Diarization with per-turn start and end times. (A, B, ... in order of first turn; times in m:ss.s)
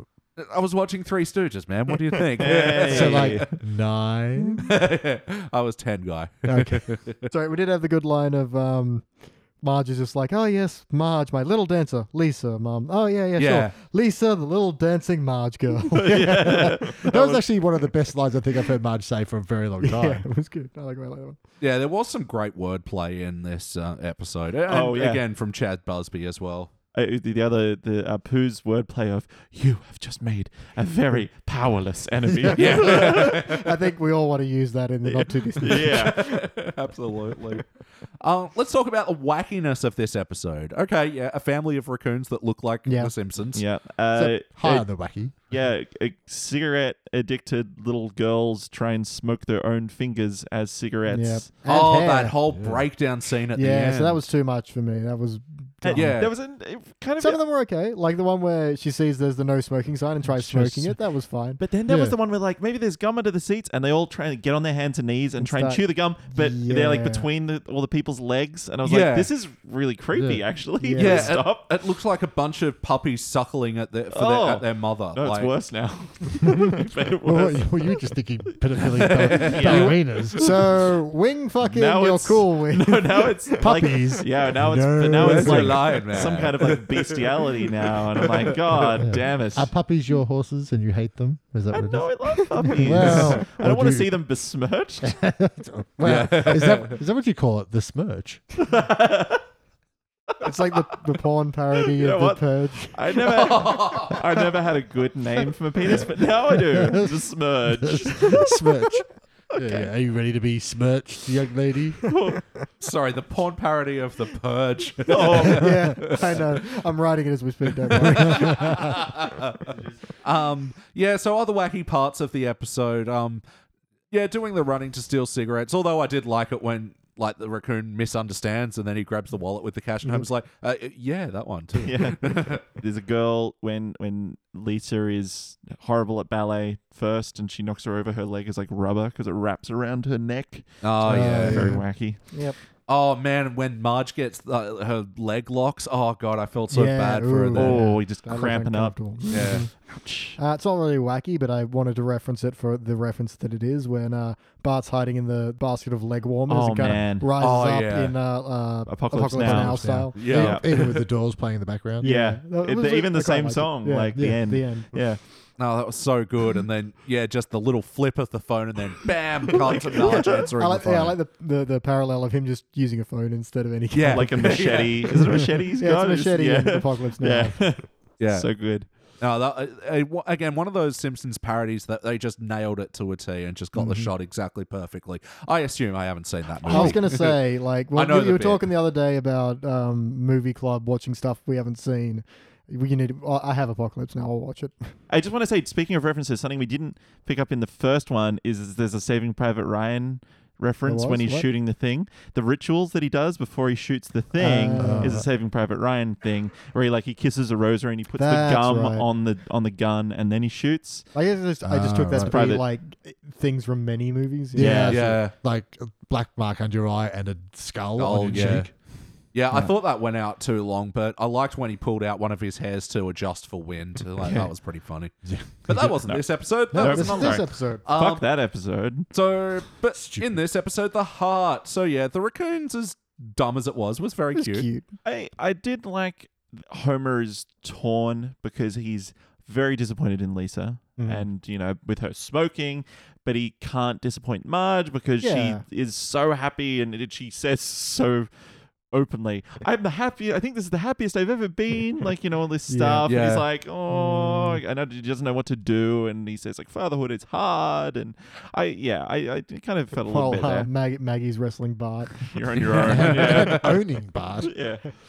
0:00.4-0:03.6 A
0:02.4-0:03.5 B
0:02.9-0:04.7 C
0:04.7-0:07.2 A
0:06.5-0:17.1 D
0:13.4-0:13.7 A
0:15.9-0:17.1 B
0:16.7-0:20.2 C
0:19.8-0:21.4 D
0:21.6-0:26.7 A
0:24.7-0:25.2 B
0:26.9-0:33.4 B
0:32.4-0:36.4 D
0:32.5-0:33.7 A
0:35.1-0:36.3 B
0:35.7-0:37.7 A
0:38.2-0:43.6 A
0:42.9-0:43.1 D
0:43.5-0:51.7 B
0:44.1-0:45.4 C
0:51.1-0:52.4 D
0:51.7-0:54.2 A
0:52.5-0:52.8 C
0:53.6-0:56.1 D
0:55.8-0:57.4 B
0:55.9-0:56.3 A
0:57.2-1:01.6 D
1:00.3-1:01.0 C
1:01.6-1:11.7 B
1:01.9-1:02.1 C
1:05.4-1:07.3 D
1:08.8-1:09.3 A
1:10.1-1:10.4 C
1:10.8-1:11.3 D
1:11.0-1:15.5 A
1:14.1-1:18.1 B
1:17.2-1:20.4 C
1:18.8-1:20.8 B
1:19.2-1:20.0 A
1:20.4-1:24.2 D
1:21.6-1:29.7 B
1:23.6-1:25.9 C
1:25.2-1:29.0 A
1:29.0-1:34.1 C
1:31.7-1:35.2 B
1:32.6-1:33.4 D
1:35.0-1:38.4 C
1:36.0-1:37.0 A
1:38.6-1:39.4 B
1:40.4-1:43.0 D
1:42.0-1:48.9 B
1:43.1-1:44.2 A
1:46.8-1:47.2 C
1:47.8-1:52.1 C
1:49.6-1:49.9 B
1:52.1-1:52.4 B
1:52.8-1:56.6 A
1:55.0-1:56.1 B
1:55.2-1:59.0 D
1:57.9-2:03.4 A
1:58.3-1:58.6 C
2:04.1-2:12.6 A
2:11.8-2:22.4 B
2:20.8-2:21.8 A
2:21.0-2:21.8 C
2:22.3-2:22.6 D
2:22.9-2:27.8 A
2:26.7-2:29.7 D
2:27.5-2:30.4 B
2:29.3-2:29.6 A
2:30.4-2:40.3 D
2:36.5-2:37.4 B
2:37.4-2:38.1 A
2:38.9-2:41.0 B
2:39.4-2:42.1 C
2:40.1-2:40.9 A
2:42.0-2:44.9 D
2:42.0-2:45.2 B
2:44.2-2:44.4 C
2:45.6-2:51.2 A
2:49.8-2:57.6 D
2:53.9-2:55.2 A
2:54.1-2:58.9 B
2:58.2-2:58.5 A
2:59.2-3:07.4 A
3:03.8-3:04.1 C
3:06.6-3:14.9 D
3:06.7-3:07.0 C
3:07.9-3:08.7 A
3:15.1-3:31.1 B
3:20.8-3:21.4 D
3:24.4-3:25.2 D
3:24.8-3:25.3 C
3:28.2-3:29.1 D
3:31.1-3:34.9 D
3:31.6-3:32.4 C
3:32.2-3:32.6 B
3:34.6-3:38.7 C
3:34.6-3:35.0 B
3:34.9-3:35.3 A
3:38.0-3:38.7 A
3:39.3-3:48.2 A
3:44.2-3:44.5 B
3:45.3-3:46.0 C
3:46.7-3:47.8 D
3:46.7-3:49.1 B
3:46.8-3:47.3 C
3:49.1-3:54.7 A
3:50.0-3:50.4 C
3:54.4-3:54.9 D
3:55.0-4:20.7 B
4:01.0-4:01.3 D
4:05.2-4:05.6 D
4:12.7-4:13.1 D
4:13.1-4:13.4 A
4:13.9-4:14.6 D
4:20.1-4:22.3 D
4:22.2-4:23.8 B
4:22.6-4:23.7 A
4:22.9-4:24.5 C
4:24.4-4:24.9 B